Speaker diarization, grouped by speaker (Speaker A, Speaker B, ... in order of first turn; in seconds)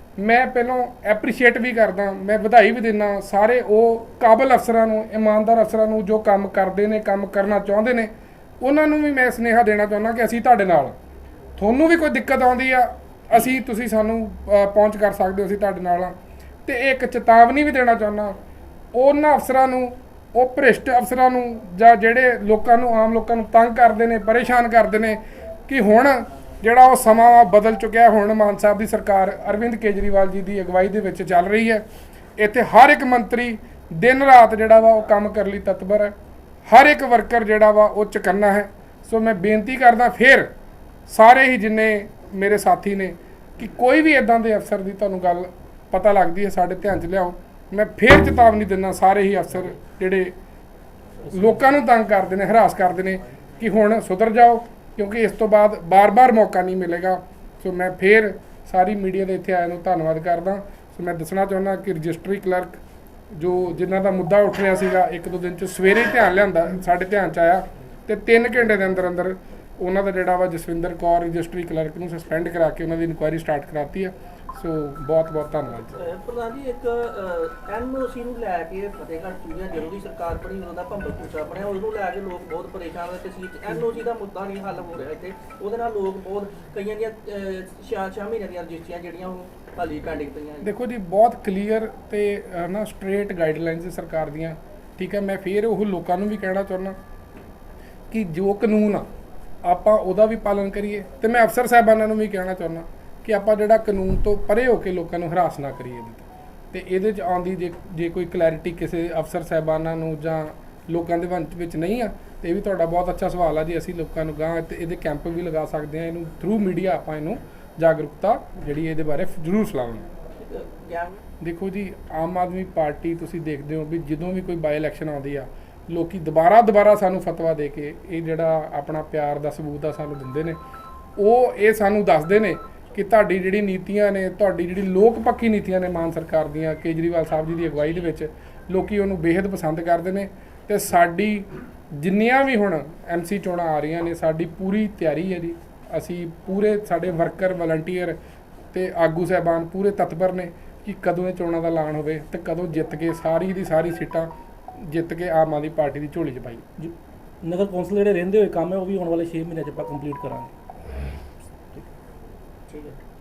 Speaker A: 0.2-10.9, 11.6-16.1, 16.6-18.4, 18.9-31.8, 32.4-36.1, 36.6-40.5, 41.1-50.3, 51.3-62.8, 63.3-76.0, 90.6-97.0, 98.1-99.1, 99.6-120.1, 121.4-130.6, 131.2-148.2, 148.7-156.6
Speaker B: 75.9-90.7, 120.4-121.2, 162.7-163.0
Speaker C: 156.8-160.5